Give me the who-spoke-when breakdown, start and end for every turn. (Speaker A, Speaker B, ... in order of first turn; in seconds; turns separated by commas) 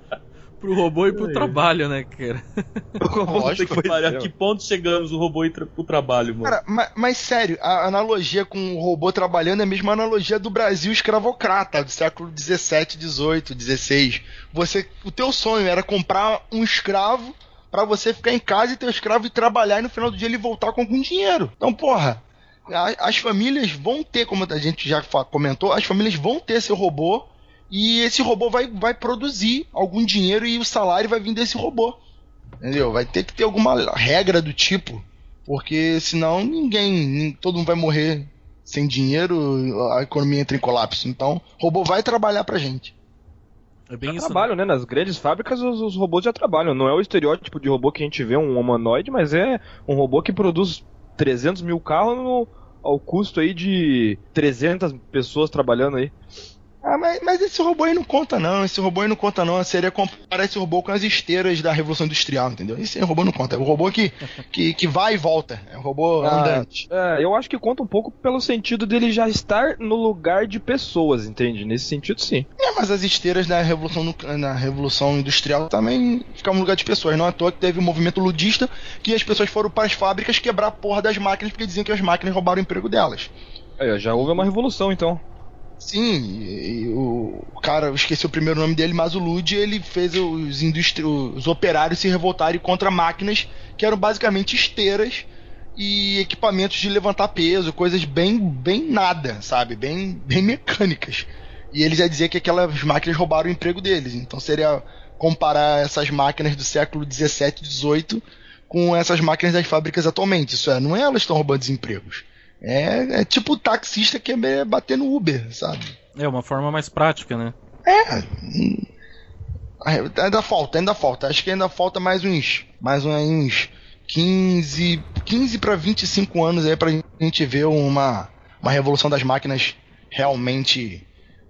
Speaker A: 0.6-2.8, Speaker B: 1.1-1.6, Speaker C: 3.0-4.3, Speaker B: 3.3-6.6, Speaker D: 3.3-3.7, Speaker D: 6.4-32.0, Speaker D: 32.6-42.9, Speaker A: 43.9-44.5, Speaker C: 44.1-56.1, Speaker D: 56.8-66.9, Speaker C: 66.2-72.5, Speaker D: 72.6-83.3, Speaker C: 83.8-85.2, Speaker D: 84.2-84.5, Speaker D: 85.8-116.0, Speaker A: 116.2-117.5, Speaker D: 117.8-118.9, Speaker D: 119.8-131.1